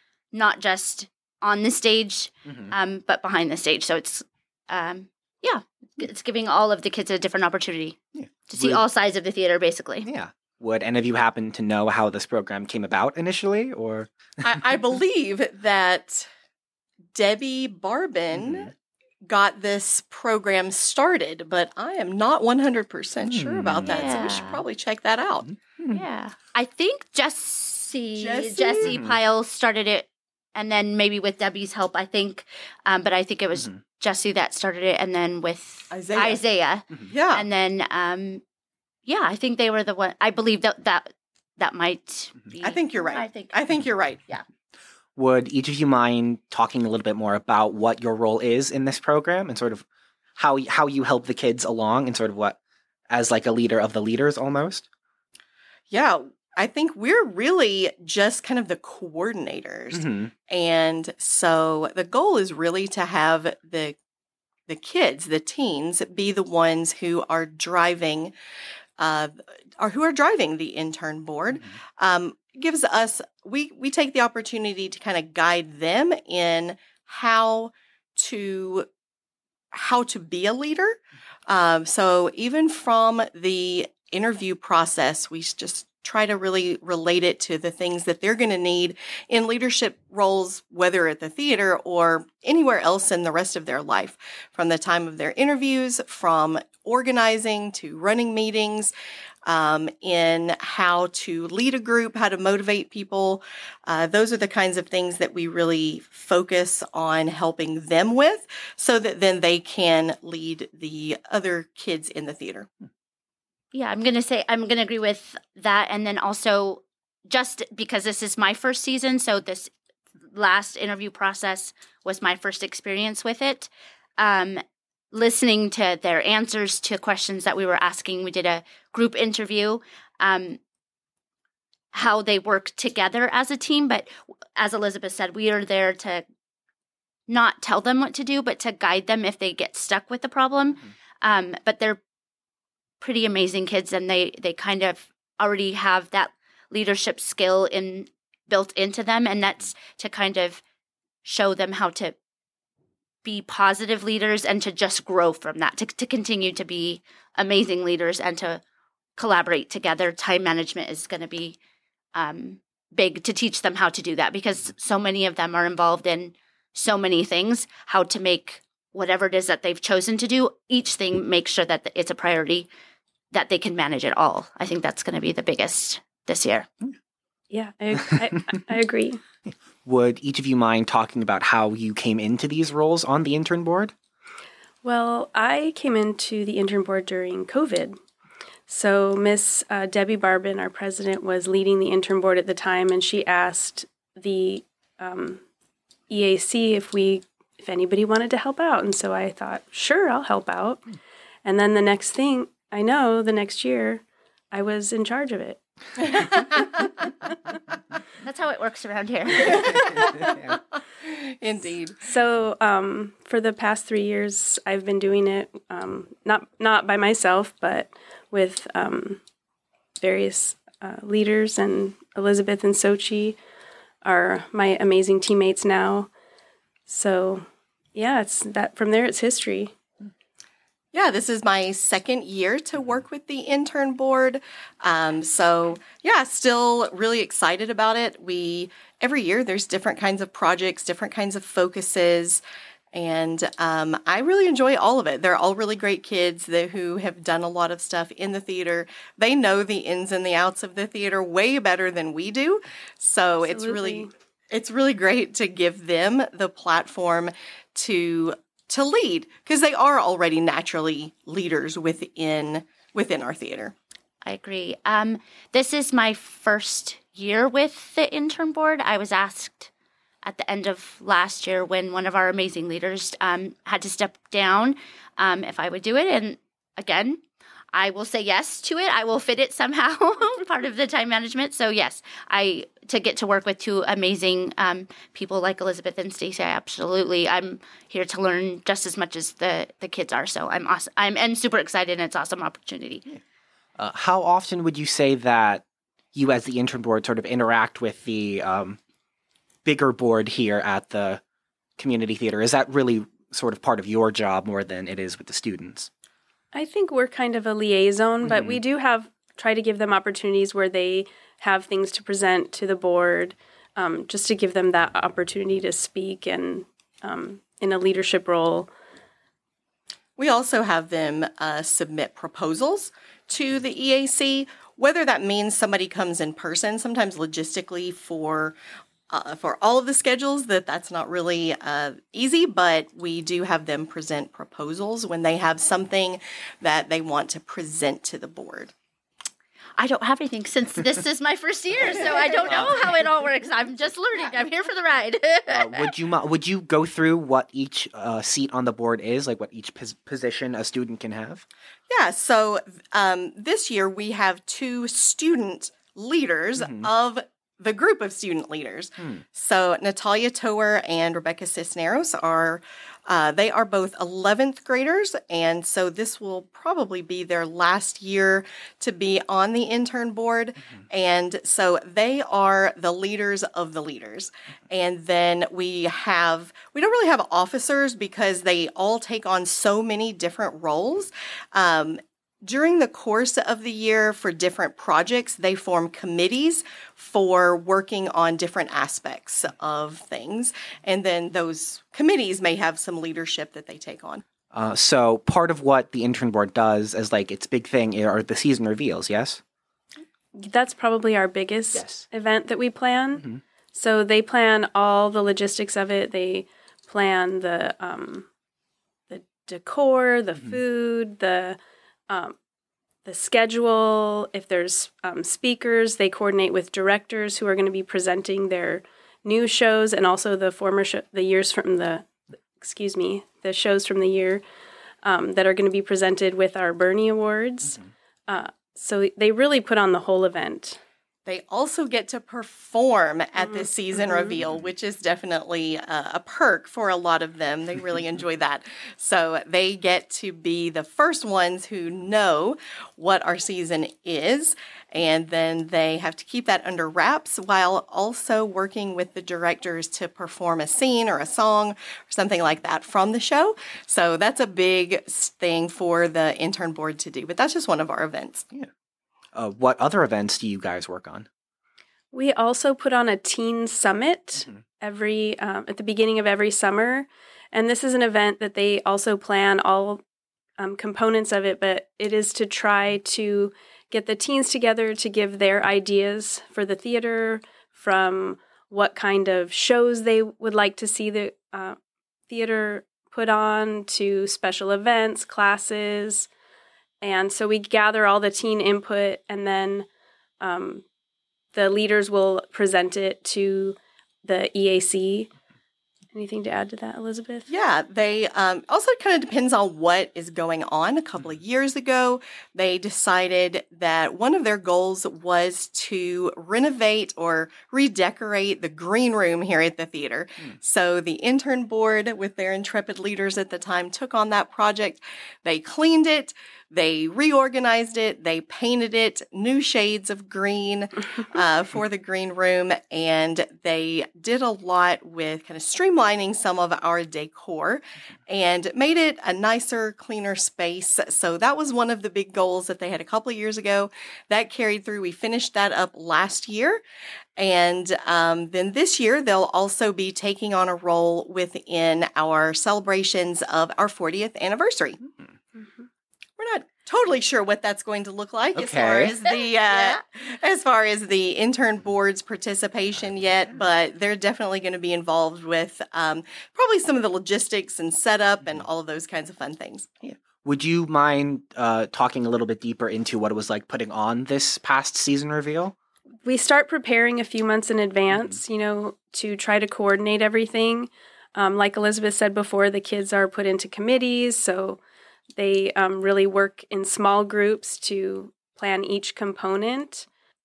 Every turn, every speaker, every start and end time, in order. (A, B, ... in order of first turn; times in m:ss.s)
0:00.3-0:08.0 A
0:02.5-0:02.7 B
0:08.2-0:08.8 B
0:08.5-0:10.1 A
0:10.0-0:14.5 B
0:14.4-0:16.3 C
0:17.1-0:18.7 C
0:18.4-0:18.7 B
0:19.2-0:25.5 C
0:23.2-0:24.0 B
0:23.9-0:24.6 A
0:25.4-0:26.0 B
0:25.9-0:38.4 A
0:28.2-0:28.9 C
0:28.8-0:29.2 B
0:35.9-0:36.4 C
0:37.1-0:37.5 C
0:39.1-0:43.6 A
0:42.6-0:44.2 C
0:45.2-0:49.8 B
0:50.4-0:52.6 B
0:53.1-0:54.8 B
0:55.9-1:04.0 C
0:59.9-1:00.3 B
1:04.7-1:08.3 C
1:09.0-1:18.9 C
1:19.7-1:38.9 C
1:39.5-1:52.7 C
1:53.7-1:59.7 A
2:00.3-2:10.6 A
2:11.9-2:16.2 A
2:17.3-2:22.0 A
2:23.0-2:30.6 A
2:31.2-2:32.2 A
2:33.2-2:38.6 A
2:39.2-2:41.6 A
2:42.2-2:52.7 A
2:53.3-2:56.7 A
2:57.5-2:59.2 D
2:59.8-3:03.9 B
3:04.8-3:08.0 D
3:08.7-3:15.4 D
3:16.1-3:20.8 D
3:21.4-3:26.6 D
3:28.2-3:30.0 A
3:29.7-3:32.0 C
3:32.0-3:39.2 D
3:40.0-3:43.4 D
3:44.0-3:46.1 D
3:46.9-3:49.7 D
3:50.9-4:02.4 C
4:02.9-4:23.8 C
4:13.4-4:14.1 D
4:24.2-4:29.7 A
4:30.2-4:37.2 A
4:37.7-4:53.1 A
4:53.8-4:58.8 B
4:59.6-5:01.2 B
5:01.8-5:05.9 B
5:06.5-5:18.7 D
5:08.2-5:08.6 B
5:20.2-5:28.6 C
5:29.1-5:38.7 C
5:39.8-5:45.9 A
5:45.5-5:51.4 B
5:51.9-6:34.2 C
5:56.6-5:56.9 B
6:34.5-6:39.4 B
6:40.4-6:48.3 D
6:41.7-6:42.0 B
6:49.1-6:51.6 D
6:52.1-6:52.4 D
6:53.0-7:02.1 D
7:02.6-7:04.4 D
7:05.0-7:10.8 D
7:11.3-7:38.5 C
7:13.4-7:14.3 D
7:39.4-7:41.3 B
7:42.1-7:50.0 D
7:50.6-8:01.8 D
8:02.3-8:06.3 D
8:07.0-8:09.9 D
8:10.4-8:10.8 D
8:11.5-8:15.3 D
8:16.1-8:17.5 D
8:17.5-8:56.8 C
8:57.4-9:05.0 C
9:06.4-9:19.9 C
9:08.6-9:09.2 B
9:09.7-9:10.0 A
9:20.0-9:25.8 B
9:26.2-9:34.8 D
9:35.4-9:40.1 D